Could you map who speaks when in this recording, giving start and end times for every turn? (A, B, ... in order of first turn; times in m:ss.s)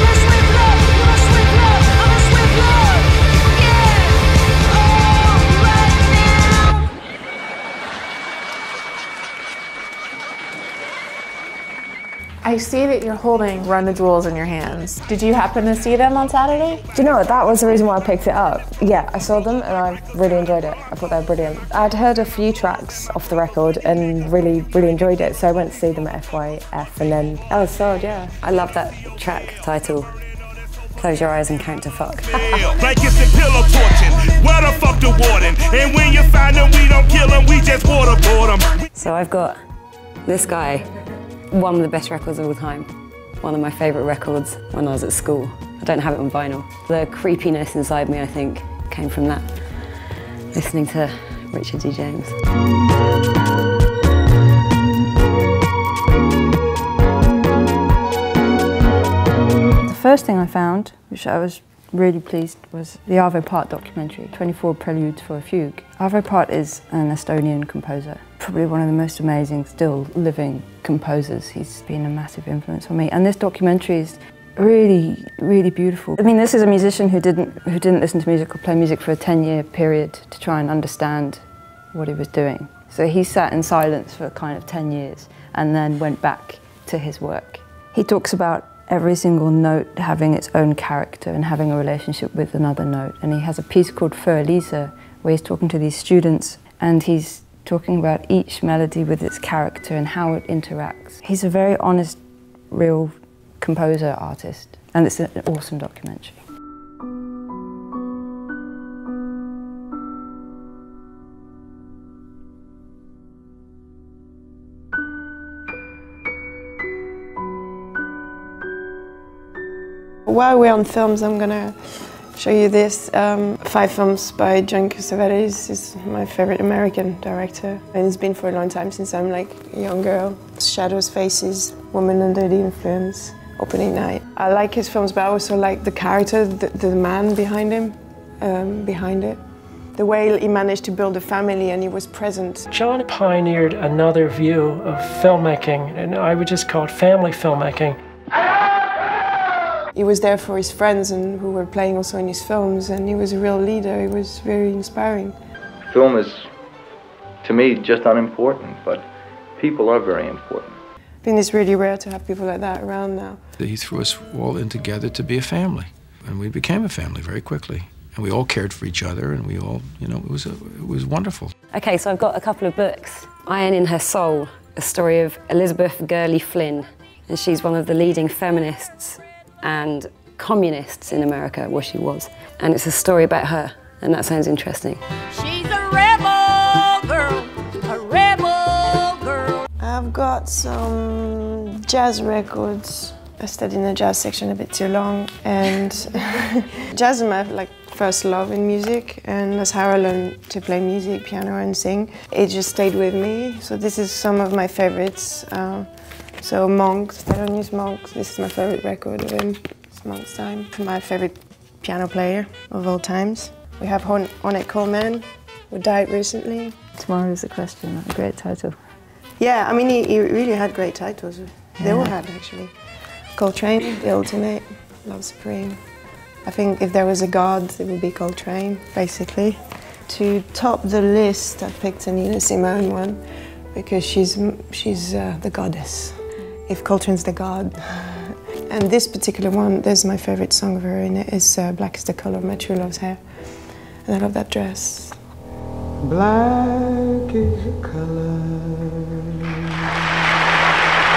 0:02.0-0:02.5 A
0:12.4-0:16.8 B
0:16.9-0:28.3 A
0:28.4-0:30.1 C
0:31.0-0:32.5 C
0:32.6-0:38.7 D
0:38.9-0:39.6 C
0:40.3-0:40.9 C
0:41.5-0:42.9 C
0:43.4-0:49.9 C
0:50.5-0:52.4 C
0:59.8-1:46.4 E
2:00.3-2:19.4 F
2:19.9-2:22.7 F
2:22.7-2:28.0 G
2:29.9-2:35.4 F
2:35.9-2:36.5 H
2:37.4-2:39.1 H
2:39.6-2:40.8 H
2:41.2-2:43.4 F
2:43.6-2:51.5 I
2:51.7-3:05.0 C
3:05.4-3:06.4 J
3:06.9-3:09.4 J
3:09.8-3:36.8 F
3:37.0-3:38.8 E
3:39.4-3:42.7 F
3:41.8-3:42.1 E
3:43.4-3:45.8 F
3:46.4-3:53.2 F
3:53.7-4:05.2 F
4:06.0-4:09.2 K